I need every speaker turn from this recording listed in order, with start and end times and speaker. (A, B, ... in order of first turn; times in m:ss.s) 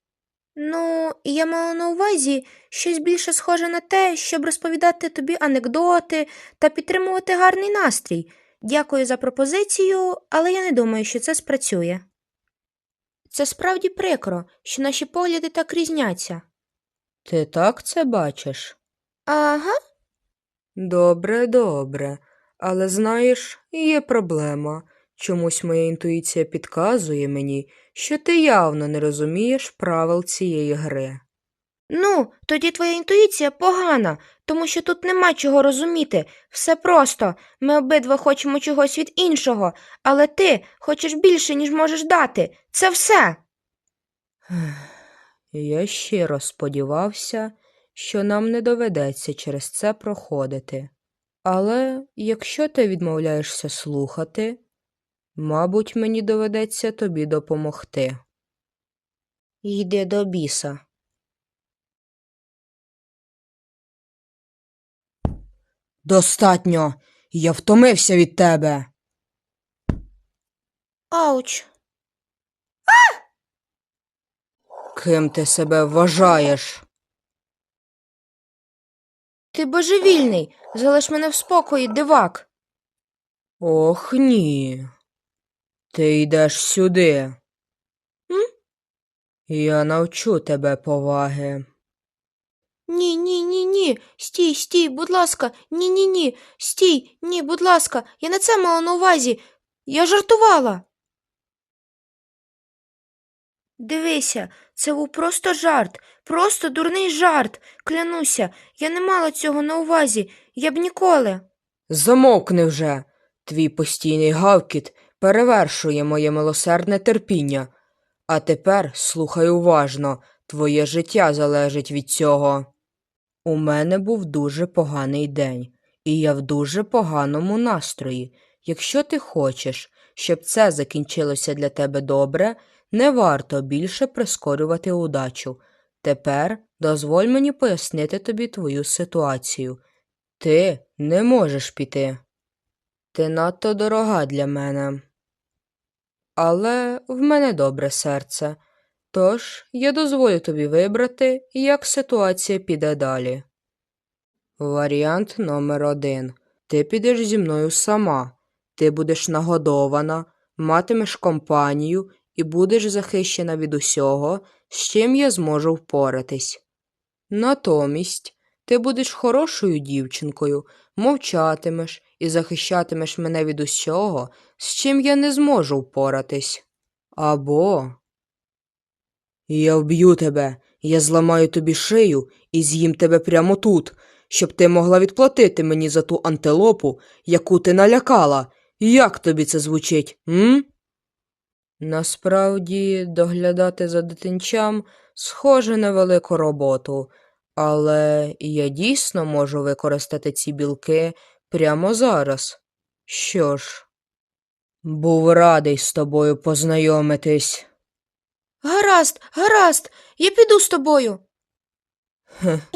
0:00.6-0:12.0 A
0:13.3-0:16.4 A
0:17.2-0:18.8 B
0:19.3-0:19.7 A
0:20.8-0:31.2 B
0:31.9-0:43.4 A
0:44.5-0:44.9 B
0:45.5-0:50.9 B
0:51.4-0:54.6 B
0:55.4-0:58.2 B
0:59.6-1:00.8 A
1:06.0-1:08.9 B
1:11.1-1:11.7 A
1:14.9-1:16.8 B
1:19.5-1:22.5 A
1:23.6-1:24.9 B
1:25.9-1:27.4 B
1:29.5-1:31.6 B
1:32.9-1:40.8 A
1:43.8-1:51.4 A
1:51.9-1:57.7 B
1:58.3-2:02.7 B
2:03.4-2:19.8 B
2:20.4-2:22.2 B
2:23.1-2:25.0 B
2:26.4-2:28.6 B
2:29.1-2:33.4 B
2:34.6-2:46.6 B
2:47.3-2:56.6 B
2:57.1-2:58.0 B
2:59.5-3:10.7 B
3:11.8-3:23.8 B
3:24.8-3:27.7 B
3:28.6-3:31.2 A